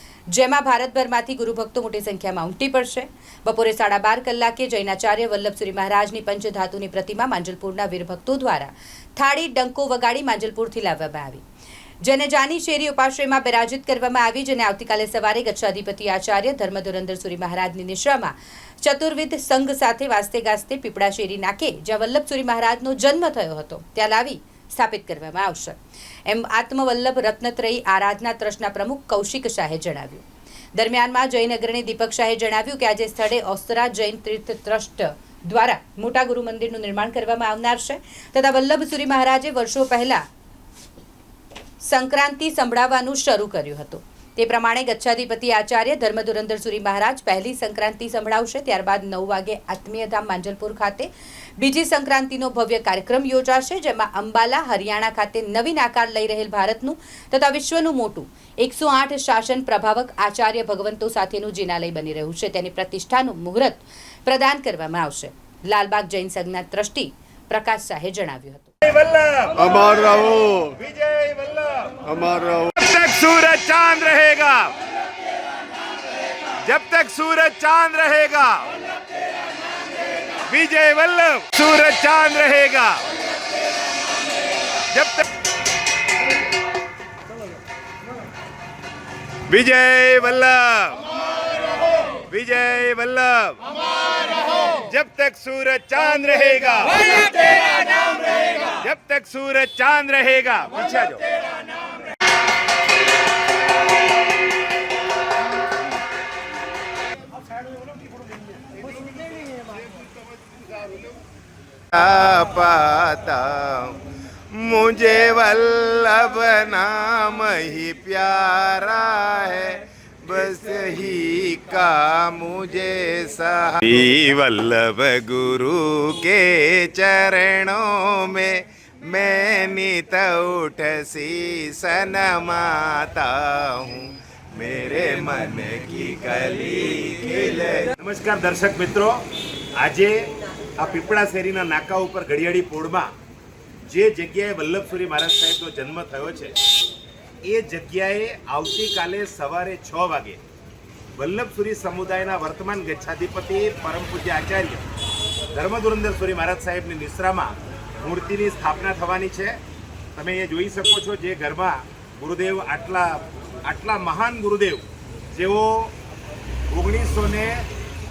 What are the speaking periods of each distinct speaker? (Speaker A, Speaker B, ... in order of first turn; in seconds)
Speaker A: 0.3-11.4, 12.0-40.2, 41.8-68.7
Speaker B: 68.8-74.7, 76.6-78.7, 80.5-83.0, 84.9-85.2, 89.5-91.0, 92.3-93.6, 94.5-101.2, 137.9-139.2, 139.8-143.1, 143.8-146.6, 147.4-150.4, 151.2-154.8, 155.5-159.6, 160.1-164.8, 165.3-165.9, 166.7-167.7
Speaker C: 70.2-70.6, 77.0-78.4, 90.0-90.9, 92.5-93.0, 111.9-137.9